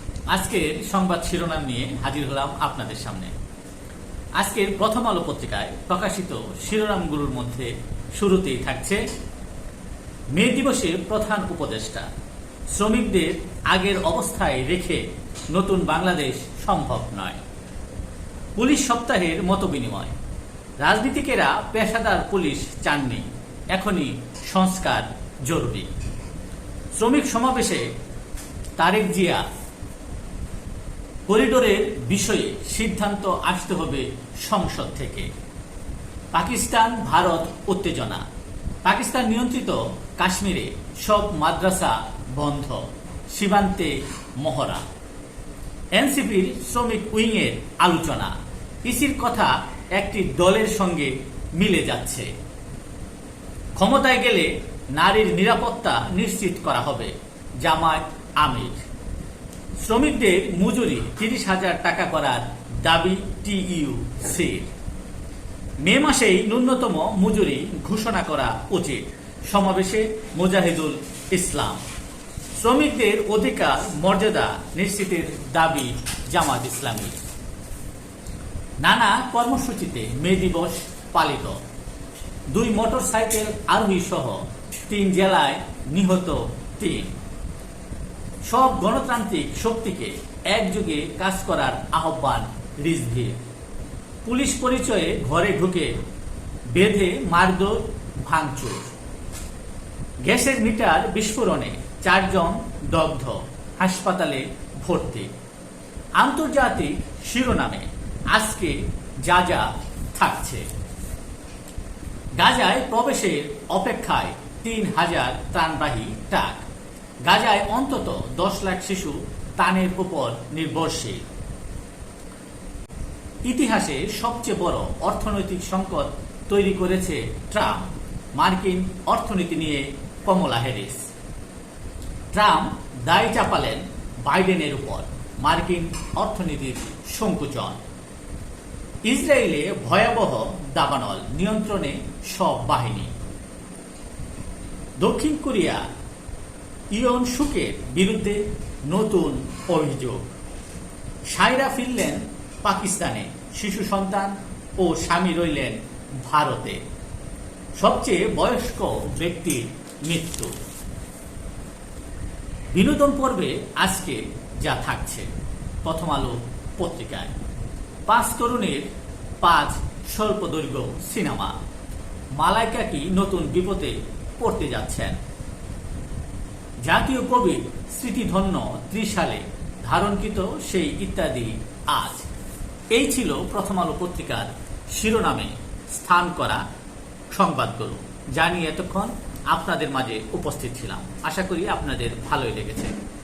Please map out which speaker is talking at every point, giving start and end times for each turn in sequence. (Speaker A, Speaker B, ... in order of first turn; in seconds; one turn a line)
Speaker A: 0.3-3.3
Speaker A: 4.4-9.0
Speaker A: 10.3-12.1
Speaker A: 12.7-17.4
Speaker A: 18.6-20.1
Speaker A: 20.8-25.9
Speaker A: 26.9-27.9
Speaker A: 28.8-29.4
Speaker A: 31.3-35.3
Speaker A: 36.3-38.2
Speaker A: 38.8-44.8
Speaker A: 46.0-52.3
Speaker A: 53.8-58.8
Speaker A: 59.8-64.7
Speaker A: 65.8-71.8
Speaker A: 72.5-77.2
Speaker A: 78.8-81.6
Speaker A: 82.5-87.1
Speaker A: 88.5-93.4
Speaker A: 94.2-96.0
Speaker A: 96.7-98.9
Speaker A: 100.2-105.3
Speaker A: 106.2-110.7
Speaker A: 112.4-116.6
Speaker A: 117.2-121.2
Speaker A: 123.5-131.1
Speaker A: 132.3-137.8
Speaker A: 139.1-143.1
Speaker A: 145.0-145.8
Speaker A: 146.9-150.3
Speaker A: 151.3-156.8
Speaker A: 157.8-160.5
Speaker A: 162.7-165.3
Speaker A: 165.8-167.3
Speaker A: 168.1-168.9
Speaker A: 169.4-171.5
Speaker A: 172.4-175.2
Speaker A: 176.8-182.3
Speaker A: 182.9-186.6
Speaker A: 187.3-193.0